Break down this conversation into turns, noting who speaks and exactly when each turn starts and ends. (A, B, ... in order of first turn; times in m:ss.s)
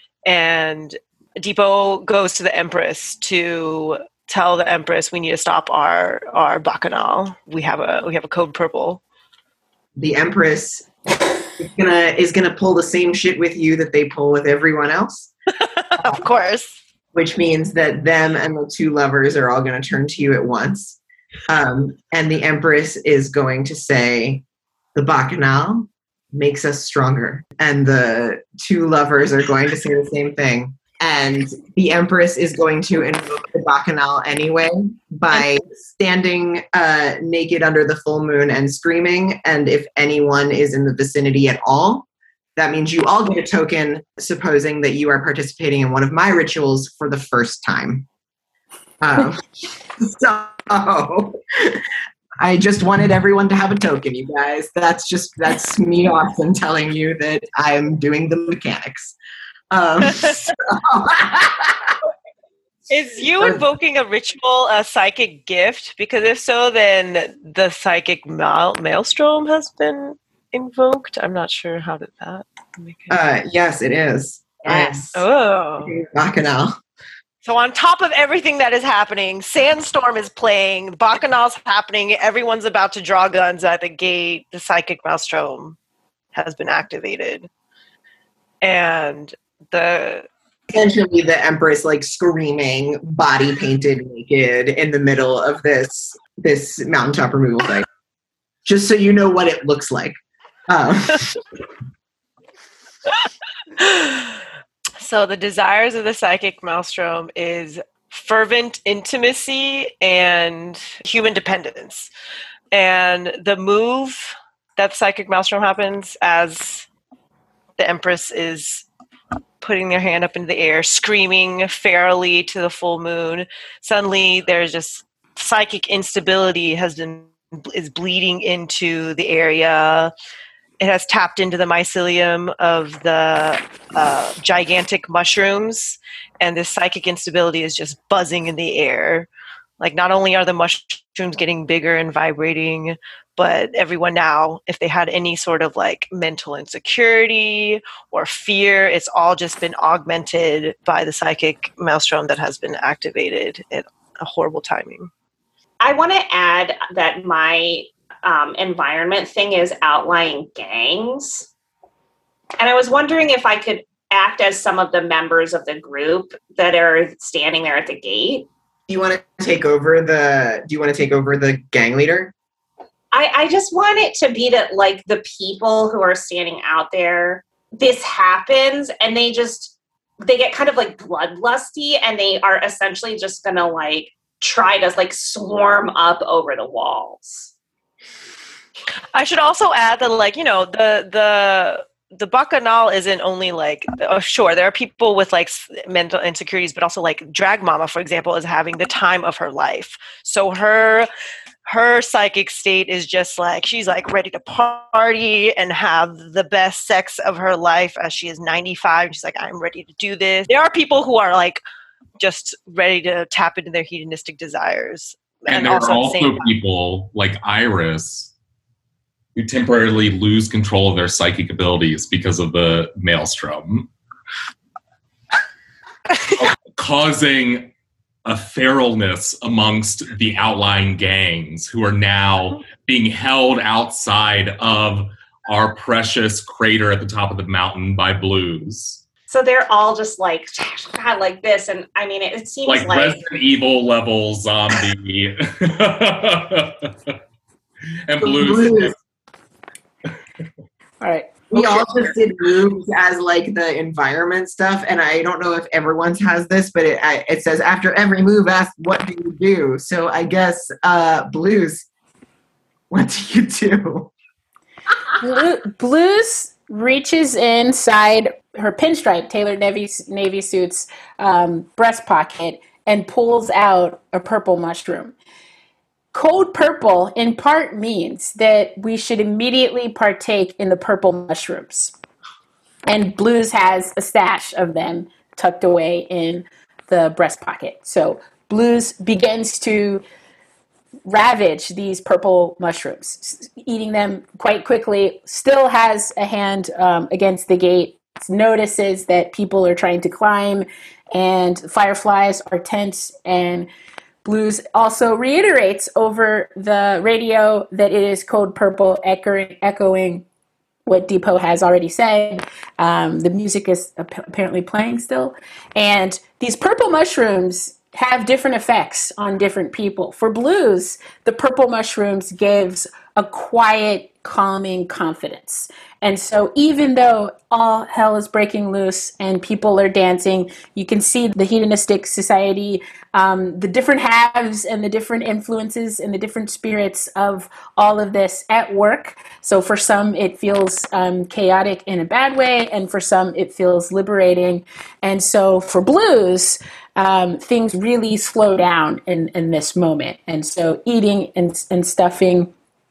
0:00.2-0:09.0 A
0:10.0-0:10.9 B
0:11.6-0:15.3 B
0:15.6-0:16.8 A
0:17.1-0:24.4 B
0:24.9-0:48.0 B
0:49.0-0:49.4 B
0:50.0-0:51.8 B
0:52.4-0:59.2 B
0:59.7-1:01.9 B
1:02.9-1:13.2 A
1:03.4-1:03.6 B
1:13.1-1:15.2 B
1:14.6-1:15.9 A
1:15.8-1:16.8 B
1:17.4-1:25.8 A
1:26.3-1:27.5 A
1:28.6-1:30.3 A
1:30.7-1:37.8 B
1:38.6-1:40.2 B
1:40.7-1:41.3 B
1:43.8-1:44.4 A
1:45.0-1:52.1 A
1:52.7-1:56.9 A
1:57.8-1:58.8 A
1:59.6-2:10.1 A
2:10.8-2:19.3 A
2:19.8-2:35.1 A
2:35.8-2:41.5 C
2:42.6-2:48.5 C
2:48.9-2:52.3 B
2:53.1-3:07.5 C
3:09.1-3:21.1 A
3:21.6-3:31.6 A
3:32.2-3:36.5 A
3:35.5-3:38.3 D
3:39.3-3:43.9 D
3:46.4-3:47.7 D
3:48.2-3:59.0 D
3:59.3-4:03.2 C
4:02.6-4:07.2 D
4:08.0-4:09.0 D
4:08.2-4:08.9 B
4:11.0-4:12.1 E
4:11.5-4:21.8 B
4:22.9-4:24.1 B
4:25.2-4:35.1 E
4:36.1-4:41.9 E
4:42.9-4:50.0 E
4:51.1-5:03.7 E
5:04.2-5:10.2 E
5:10.8-5:52.5 E